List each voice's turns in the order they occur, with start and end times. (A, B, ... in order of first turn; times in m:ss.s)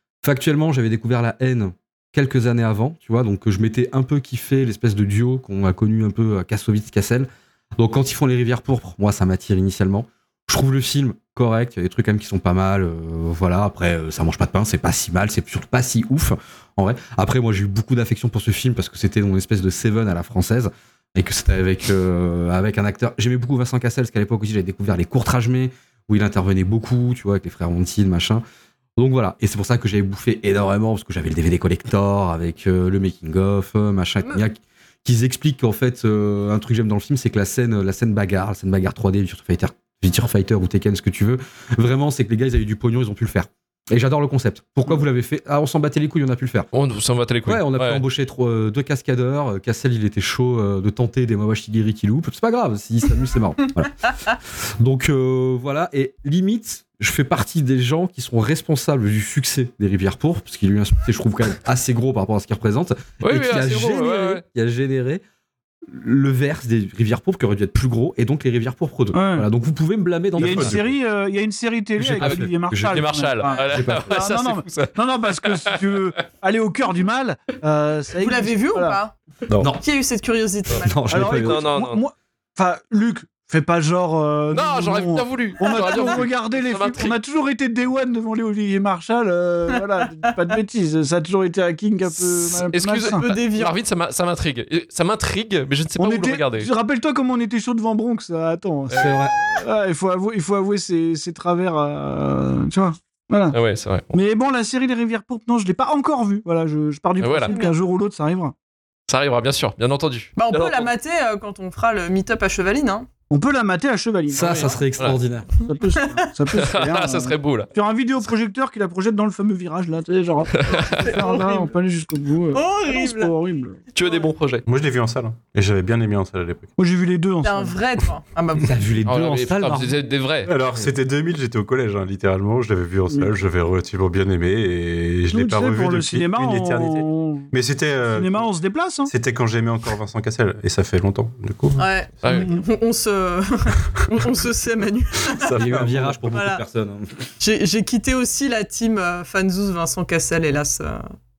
0:00.2-0:28.4 A
0:29.0-0:46.7 A
0:46.7-0:48.0 B
0:47.4-1:05.2 A
1:03.2-1:04.4 B
1:05.9-1:10.9 A
1:09.1-1:09.5 C
1:10.4-1:19.0 C
1:10.4-1:10.9 D
1:12.0-1:13.0 A
1:12.2-1:15.8 B
1:13.6-1:14.2 A
1:18.2-1:19.2 E
1:19.5-1:19.7 D
1:19.6-1:19.8 A
1:19.8-1:21.3 E
1:20.8-1:21.7 A
1:21.1-1:33.2 C
1:21.3-1:22.0 B
1:24.5-1:27.2 B
1:32.6-1:36.7 B
1:33.1-1:33.7 E
1:36.0-1:43.6 C
1:38.9-1:39.2 B
1:39.0-1:39.4 A
1:43.5-1:44.1 B
1:44.1-1:48.5 C
1:47.2-1:47.5 B
1:47.5-1:47.8 E
1:49.1-1:50.9 B
1:50.4-1:53.1 E
1:53.3-1:54.8 C
1:54.3-1:55.5 A
1:55.6-2:03.8 C
1:56.0-1:56.2 E
1:56.5-1:57.7 B
2:00.6-2:01.1 B
2:00.7-2:01.7 E
2:02.5-2:03.3 E
2:03.9-2:04.6 B
2:04.0-2:04.3 E
2:04.6-2:06.7 D
2:06.8-2:07.8 C
2:07.4-2:08.9 E
2:08.6-2:09.9 A
2:09.0-2:10.5 B
2:10.4-2:18.5 D
2:15.3-2:17.5 C
2:18.0-2:19.1 C
2:19.0-2:21.8 D
2:21.8-2:25.6 E
2:25.3-2:26.2 D
2:25.5-2:27.1 A
2:26.3-2:26.6 E
2:27.4-2:31.0 E